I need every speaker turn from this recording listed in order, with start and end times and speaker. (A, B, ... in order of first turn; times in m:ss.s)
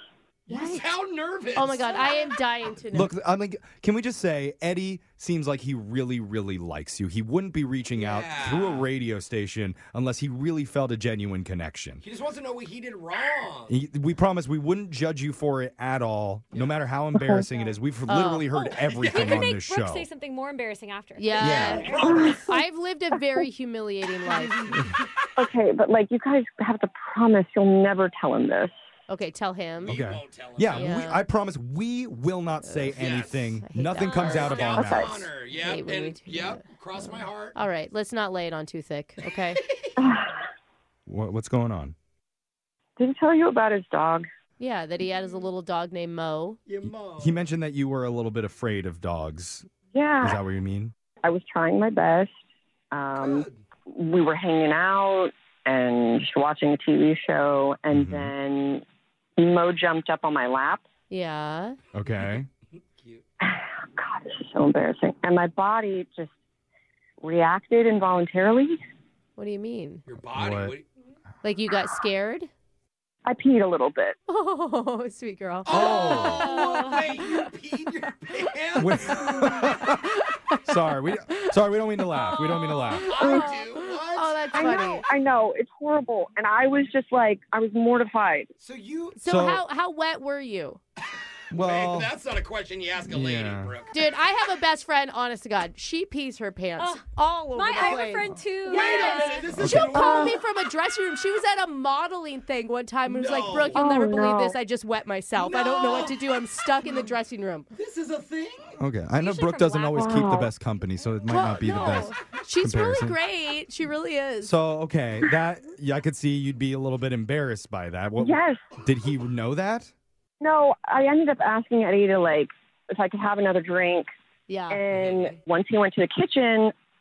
0:00.5-0:00.8 A
0:00.5-0:02.2 B
0:01.6-0:03.1 A
0:02.9-0:12.0 C
0:08.0-0:08.9 B
0:12.0-0:13.8 B
0:13.7-0:20.1 C
0:16.5-0:16.8 B
0:17.2-0:17.4 D
0:18.1-0:18.5 A
0:18.8-0:19.4 B
0:19.0-0:22.0 E
0:21.2-0:24.5 A
0:21.4-0:22.4 B
0:21.4-0:21.9 C
0:21.9-0:22.6 D
0:25.4-0:28.7 D
0:29.1-0:30.0 A
0:29.8-0:31.1 B
0:29.9-0:35.3 C
0:30.7-0:31.2 A
0:32.6-0:33.0 A
0:32.9-0:33.5 B
0:33.5-0:39.6 A
0:34.2-0:37.6 B
0:34.8-0:35.1 D
0:39.2-0:39.9 B
0:40.0-0:40.4 D
0:41.1-0:41.9 C
0:43.0-0:44.2 D
0:44.6-0:46.6 A
0:46.7-0:47.4 B
0:46.8-0:49.7 C
0:49.9-0:50.4 D
0:50.2-0:50.9 C
0:51.2-0:52.3 D
0:52.9-0:58.8 D
0:53.1-0:53.6 B
0:57.9-0:58.3 C
0:59.4-1:00.8 D
1:01.1-1:01.8 A
1:01.9-1:02.5 C
1:03.0-1:03.2 B
1:03.5-1:06.3 D
1:07.2-1:08.8 D
1:09.4-1:10.0 A
1:10.1-1:10.8 B
1:10.3-1:10.7 C
1:11.4-1:12.5 A
1:13.2-1:14.2 D
1:14.3-1:17.4 A
1:15.6-1:19.8 B
1:15.7-1:16.5 C
1:16.4-1:17.0 E
1:18.8-1:20.0 C
1:19.2-1:19.9 A
1:20.6-1:23.1 C
1:22.2-1:25.0 A
1:23.0-1:24.6 B
1:24.5-1:28.5 D
1:28.6-1:29.2 B
1:29.2-1:30.8 A
1:29.2-1:29.6 C
1:31.2-1:34.0 B
1:31.5-1:32.1 C
1:33.1-1:33.7 C
1:33.9-1:47.7 A
1:36.8-1:39.5 E
1:38.6-1:40.4 B
1:39.5-1:40.0 C
1:39.9-1:40.3 D
1:43.0-1:43.9 B
1:43.7-1:44.6 D
1:45.3-1:46.2 B
1:46.8-1:47.1 B
1:47.7-1:48.8 B
1:48.8-1:53.2 C
1:49.2-1:50.1 E
1:49.9-1:50.5 D
1:51.3-1:54.5 A
1:54.4-1:59.9 C
1:58.2-1:58.6 D
2:00.4-2:04.0 D
2:04.5-2:04.8 A
2:04.7-2:06.7 D
2:04.9-2:05.4 B